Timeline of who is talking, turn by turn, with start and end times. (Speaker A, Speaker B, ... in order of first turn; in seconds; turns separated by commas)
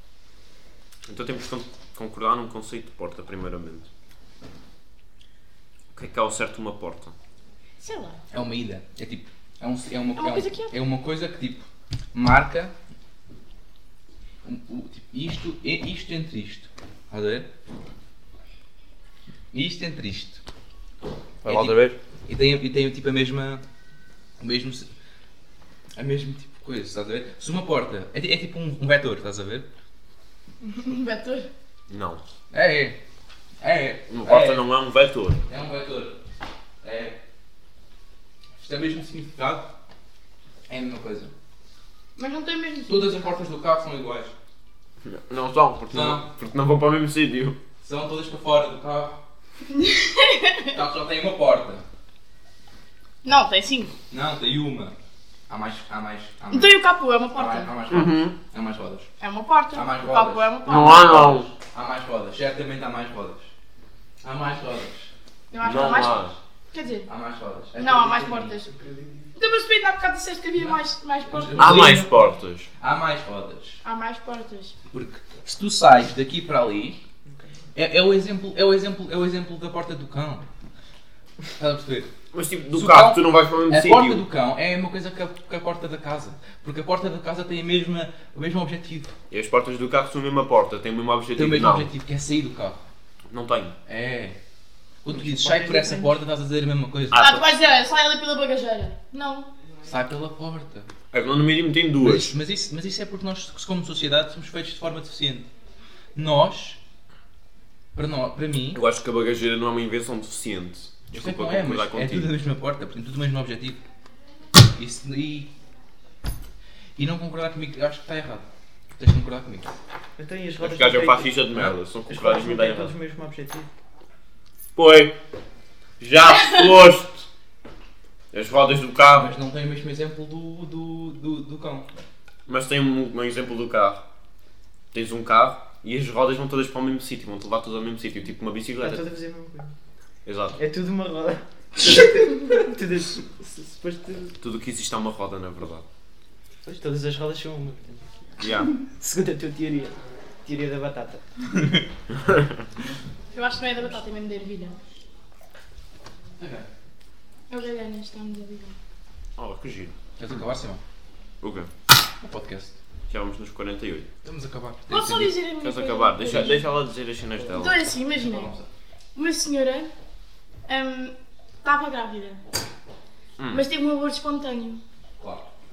Speaker A: 1.1-3.9, Speaker A: 5.9-7.2, Speaker B: 7.8-8.2, Speaker C: 8.3-12.7, Speaker B: 10.2-10.7, Speaker C: 14.4-17.5, Speaker C: 19.5-20.4, Speaker A: 21.4-22.0, Speaker C: 21.4-23.6, Speaker C: 24.4-24.9, Speaker C: 25.9-29.7, Speaker B: 30.6-31.5, Speaker A: 31.9-32.2, Speaker C: 32.5-33.0, Speaker C: 33.6-34.7, Speaker A: 34.1-35.4, Speaker C: 35.5-36.2, Speaker C: 36.8-37.2, Speaker C: 38.6-39.7, Speaker C: 40.7-41.3, Speaker B: 42.2-43.3, Speaker C: 42.9-44.3, Speaker A: 45.0-47.6, Speaker C: 45.9-46.2, Speaker C: 47.8-49.2, Speaker B: 49.8-50.8, Speaker C: 50.7-51.8, Speaker B: 53.2-53.9, Speaker C: 54.1-55.0, Speaker C: 55.5-56.7, Speaker B: 56.5-57.7, Speaker C: 57.3-59.1, Speaker A: 57.9-58.4, Speaker B: 59.2-61.0, Speaker C: 59.7-63.5, Speaker A: 60.7-61.5, Speaker C: 64.2-65.1, Speaker B: 65.5-67.1, Speaker A: 65.6-66.3, Speaker C: 65.7-66.3, Speaker C: 67.1-69.3, Speaker B: 67.8-68.7, Speaker B: 69.4-72.0, Speaker C: 70.6-73.8, Speaker A: 71.6-72.7, Speaker B: 73.8-74.8, Speaker C: 74.9-77.0, Speaker C: 77.8-80.5, Speaker C: 81.6-82.1, Speaker A: 82.3-84.2, Speaker C: 82.7-89.1, Speaker A: 89.3-91.9, Speaker C: 91.4-92.8, Speaker A: 93.3-93.8, Speaker C: 93.9-94.4, Speaker C: 95.0-97.3, Speaker D: 95.1-96.2, Speaker A: 97.1-97.6, Speaker B: 97.1-99.5, Speaker C: 99.9-100.9, Speaker A: 101.1-102.3, Speaker C: 102.0-105.5, Speaker C: 106.2-106.8, Speaker C: 108.0-108.8, Speaker A: 108.7-112.3, Speaker C: 111.1-113.8, Speaker C: 114.6-115.5, Speaker C: 117.0-119.7, Speaker D: 120.2-121.5, Speaker A: 120.6-122.9, Speaker D: 122.1-123.7, Speaker A: 124.8-125.2, Speaker A: 126.0-127.3, Speaker A: 128.3-129.3, Speaker C: 129.1-131.9, Speaker A: 132.5-134.1, Speaker A: 134.9-139.0, Speaker D: 138.8-139.7, Speaker A: 140.2-140.6, Speaker D: 140.6-144.4, Speaker A: 144.4-145.9, Speaker D: 146.7-148.1, Speaker A: 148.4-148.8, Speaker D: 148.8-151.2, Speaker B: 153.3-154.8, Speaker C: 156.4-156.7, Speaker B: 157.5-158.8, Speaker A: 159.4-160.0, Speaker C: 160.2-160.8, Speaker A: 161.4-161.7, Speaker C: 162.2-162.8, Speaker A: 163.1-164.1, Speaker C: 164.2-165.4, Speaker B: 164.9-166.7, Speaker A: 165.6-167.8, Speaker B: 167.5-168.5, Speaker C: 168.1-168.7, Speaker B: 169.2-169.9, Speaker B: 170.7-172.4, Speaker A: 173.4-173.7, Speaker B: 173.5-174.8, Speaker C: 175.2-175.5